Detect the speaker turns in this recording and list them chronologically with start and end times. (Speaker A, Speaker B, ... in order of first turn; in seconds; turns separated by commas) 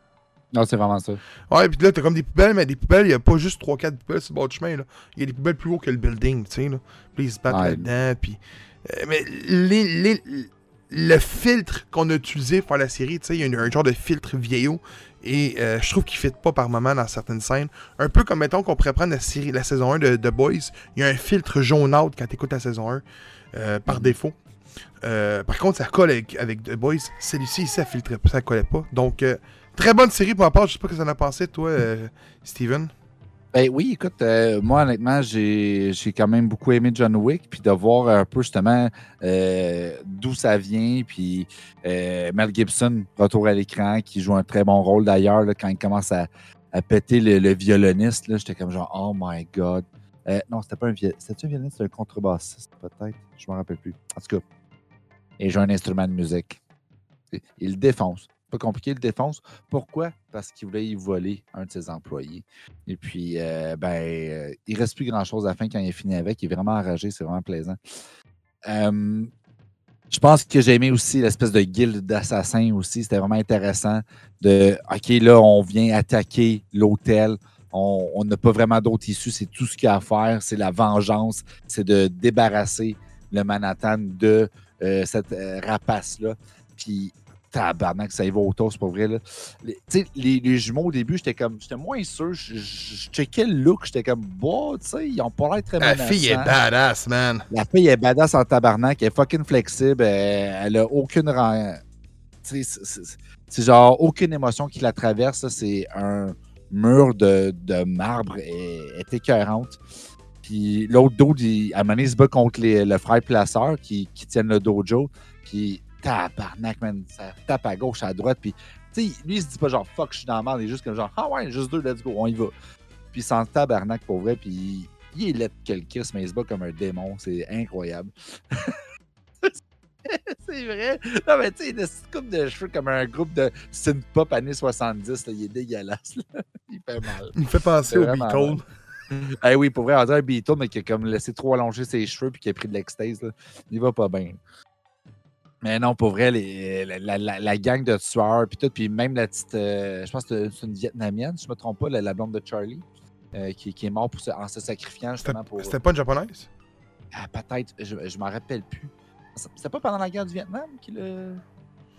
Speaker A: 0.5-1.2, Speaker B: 1.5-23.0, Speaker A: 7.5-7.9, Speaker B: 23.5-24.4, Speaker A: 23.9-24.2, Speaker B: 25.0-32.9, Speaker A: 33.5-54.4, Speaker A: 55.4-56.6, Speaker A: 57.3-67.8, Speaker A: 68.7-69.3, Speaker A: 70.1-96.5, Speaker B: 95.8-97.5, Speaker A: 97.5-101.8, Speaker A: 102.4-109.8, Speaker A: 110.4-122.5, Speaker A: 123.1-128.8, Speaker A: 129.4-138.6, Speaker B: 137.4-139.3, Speaker A: 139.4-144.4, Speaker A: 145.6-155.8, Speaker B: 155.2-156.5, Speaker A: 157.1-161.4